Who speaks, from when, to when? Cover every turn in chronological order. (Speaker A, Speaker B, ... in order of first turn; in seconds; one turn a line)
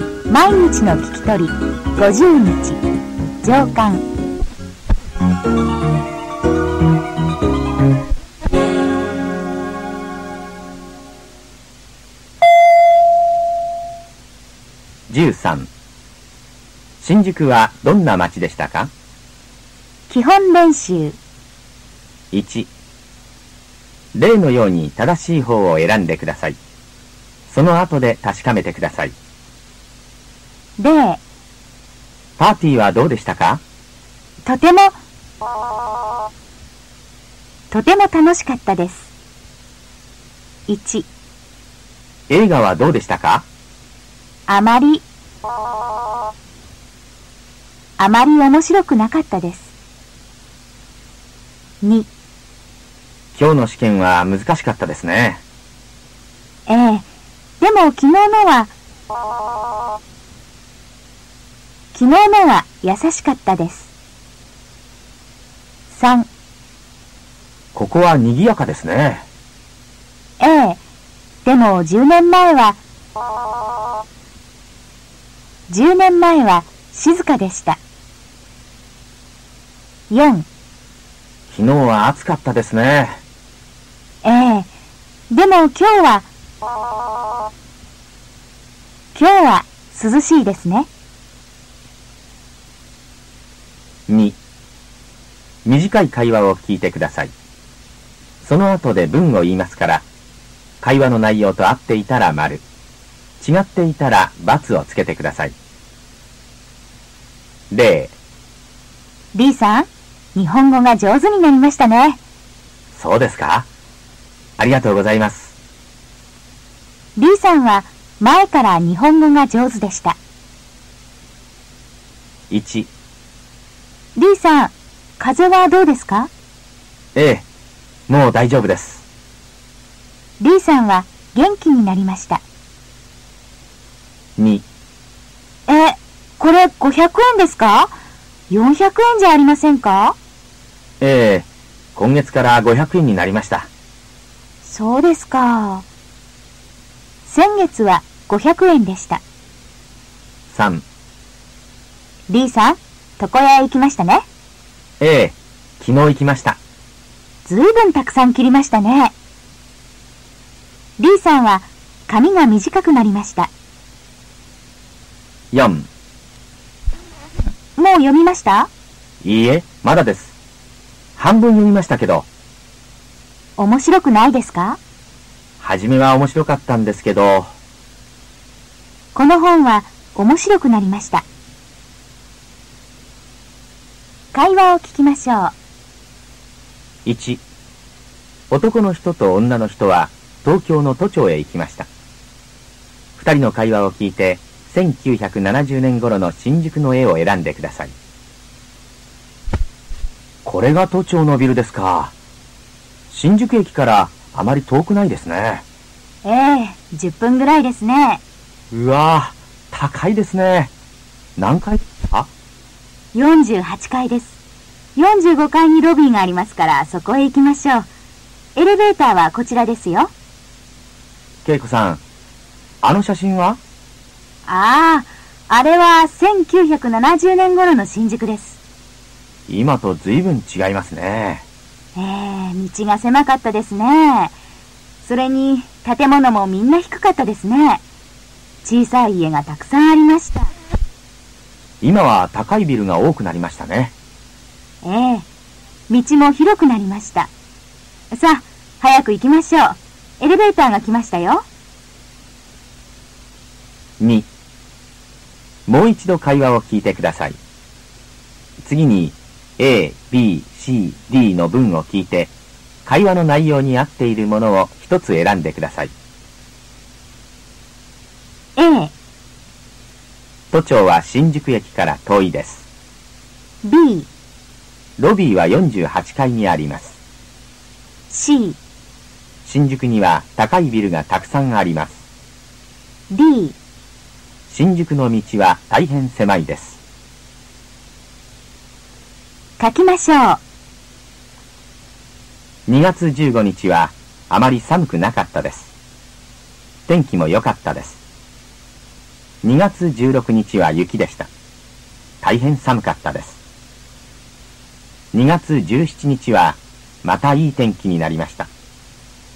Speaker A: 0.3-2.8
Speaker A: 3.4-4.1
Speaker B: 15.1-15.7
Speaker B: 17.0-18.9
Speaker A: 20.1-21.2
Speaker B: 22.3-22.7
Speaker B: 24.1-26.6
Speaker B: 27.5-29.1
Speaker A: 30.8-31.2
Speaker B: 32.4-33.6
Speaker A: 34.4-35.0
Speaker A: 37.7-39.1
Speaker A: 40.7-41.1
Speaker B: 42.3-43.5
Speaker A: 44.5-45.0
Speaker A: 48.0-49.7
Speaker A: 51.8-52.1
Speaker B: 53.3-55.4
Speaker A: 56.7-57.1
Speaker A: 57.6-58.7
Speaker A: 61.9-63.9
Speaker A: 65.9-66.3
Speaker B: 67.7-69.2
Speaker A: 70.4-70.8
Speaker A: 71.4-72.8
Speaker A: 75.7-77.8
Speaker A: 80.1-80.5
Speaker B: 81.5-83.2
Speaker A: 84.2-84.7
Speaker A: 85.3-86.3
Speaker A: 89.1-90.9
Speaker B: 94.1-94.4
Speaker B: 95.6-97.3
Speaker B: 98.4-100.0
Speaker B: 100.8-102.6
Speaker B: 103.4-105.5
Speaker B: 107.7-108.2
Speaker A: 109.3-112.2
Speaker B: 112.9-113.7
Speaker B: 114.6-115.5
Speaker A: 117.2-120.2
Speaker B: 122.5-122.9
Speaker A: 124.2-126.3
Speaker B: 127.1-127.5
Speaker B: 128.1-129.0
Speaker A: 130.4-132.4
Speaker B: 134.4-134.6
Speaker A: 135.7-137.9
Speaker A: 138.5-140.2
Speaker B: 141.0-143.7
Speaker A: 144.6-145.9
Speaker A: 147.2-149.2
Speaker B: 150.5-150.8
Speaker A: 152.3-154.2
Speaker B: 155.0-156.6
Speaker A: 157.4-159.1
Speaker A: 161.0-163.5
Speaker B: 165.5-165.9
Speaker A: 167.8-168.7
Speaker B: 169.2-170.3
Speaker B: 171.2-172.3
Speaker A: 173.6-174.8
Speaker B: 175.6-177.5
Speaker A: 179.1-181.2
Speaker A: 184.3-185.5
Speaker B: 187.0-187.4
Speaker B: 188.5-191.9
Speaker B: 193.2-197.9
Speaker B: 200.4-202.1
Speaker B: 203.1-205.6
Speaker A: 206.2-208.2
Speaker B: 208.7-210.7
Speaker B: 211.4-212.3
Speaker A: 213.1-214.4
Speaker A: 214.9-217.9
Speaker A: 218.6-220.1
Speaker B: 221.4-222.0
Speaker B: 222.8-223.6
Speaker A: 224.4-228.6
Speaker B: 229.5-231.4
Speaker A: 231.9-234.3
Speaker A: 235.0-237.8
Speaker A: 238.6-240.5
Speaker B: 241.8-243.9
Speaker A: 244.8-245.3
Speaker A: 245.9-247.3
Speaker A: 248.1-251.4
Speaker B: 254.0-254.3
Speaker B: 255.7-257.4
Speaker B: 258.6-262.3
Speaker B: 262.9-265.9
Speaker A: 268.6-268.9
Speaker B: 270.5-272.7
Speaker A: 273.6-274.1
Speaker B: 275.0-277.0
Speaker A: 278.1-278.6
Speaker B: 279.4-282.0
Speaker A: 283.1-283.6
Speaker B: 284.5-286.8
Speaker A: 289.6-290.4
Speaker B: 292.7-295.7
Speaker B: 296.9-298.0
Speaker B: 299.4-301.3
Speaker B: 302.2-303.4
Speaker B: 305.1-308.5